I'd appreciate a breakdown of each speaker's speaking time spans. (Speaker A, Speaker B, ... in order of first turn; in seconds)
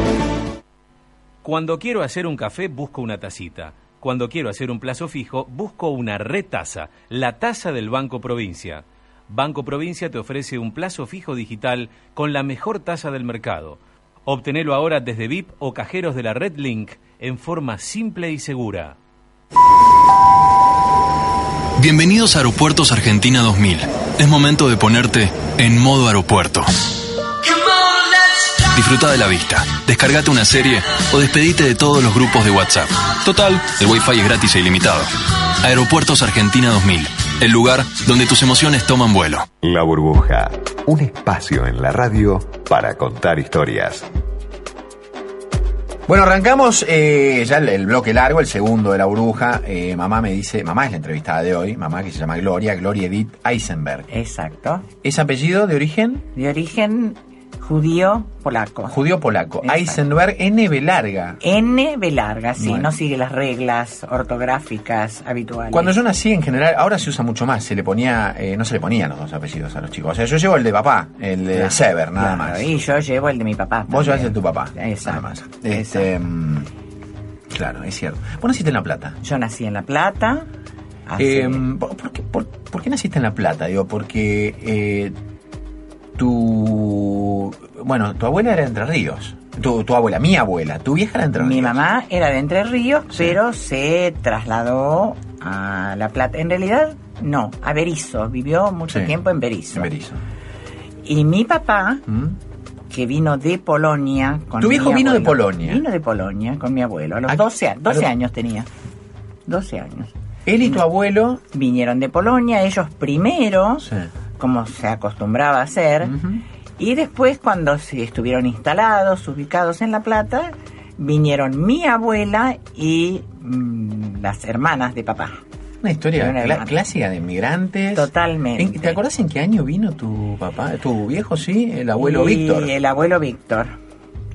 Speaker A: 1.4-18.9
Speaker B: 21.8-26.7, 27.5-35.1, 35.6-39.5
Speaker C: 39.6-44.1
Speaker D: 46.1-54.1, 55.0-56.2, 58.9-61.4, 62.6-62.9, 65.7-72.7, 73.9-76.7, 77.5-79.2, 81.2-85.1, 86.2-91.8, 93.1-93.4, 98.9-99.1, 99.7-100.2, 102.1-102.3, 104.6-105.8, 107.3-108.1, 110.5-111.4, 116.0-116.4, 125.8-132.7
Speaker E: 54.1-54.9, 56.3-59.0, 59.6-60.0, 61.4-65.9, 71.5-76.1, 79.2-80.5, 81.1-81.6, 91.4-99.9, 101.0-102.0, 102.9-108.7, 109.5-110.1, 111.5-113.9, 114.4-116.2, 116.8-125.4, 126.2-126.7, 127.9-129.0, 132.0-133.7